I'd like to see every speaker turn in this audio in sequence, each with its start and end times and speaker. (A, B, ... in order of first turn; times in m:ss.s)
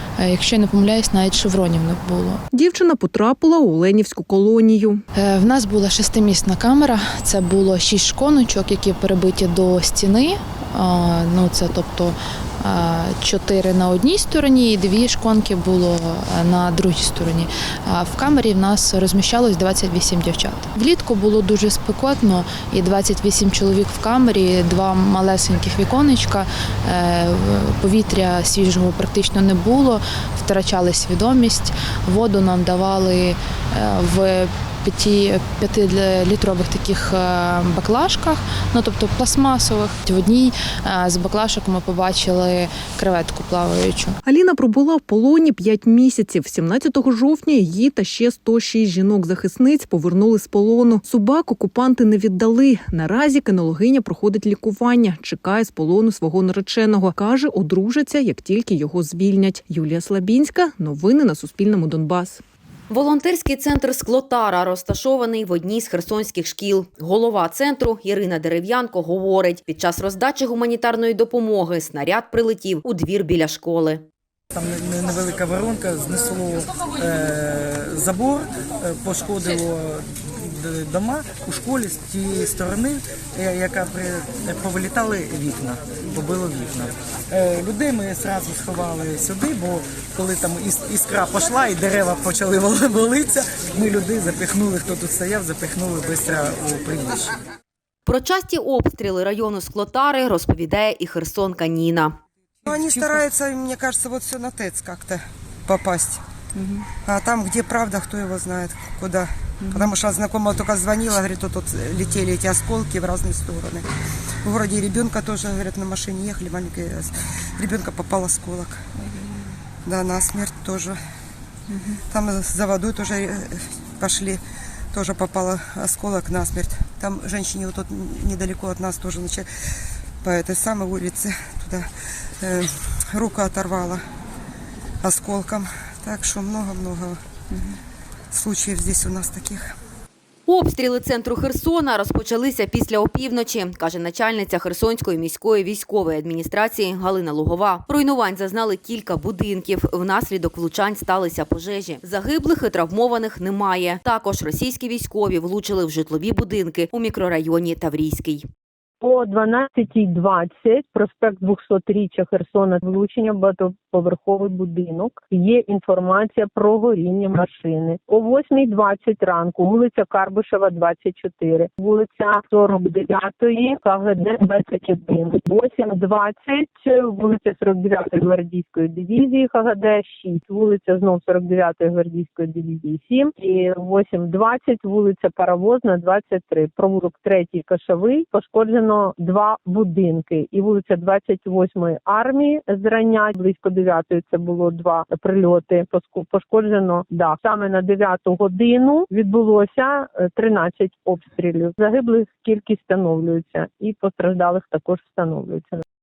0:00.2-0:02.4 A
0:02.5-0:05.0 B
0:05.2-0:44.2 A
0:44.3-1:02.4 B
1:02.9-1:14.1 C
1:14.6-1:37.2 D
1:38.1-1:42.2 C
1:42.7-1:46.2 E
1:47.0-1:53.9 E
1:54.4-1:58.9 E
1:59.8-2:01.0 E
2:02.1-2:04.4 E
2:04.9-2:09.5 E
2:10.2-2:11.9 E
2:12.4-2:14.0 E
2:15.0-2:17.2 E
2:18.3-2:19.7 E
2:20.5-2:38.5 C
2:39.0-3:25.8 F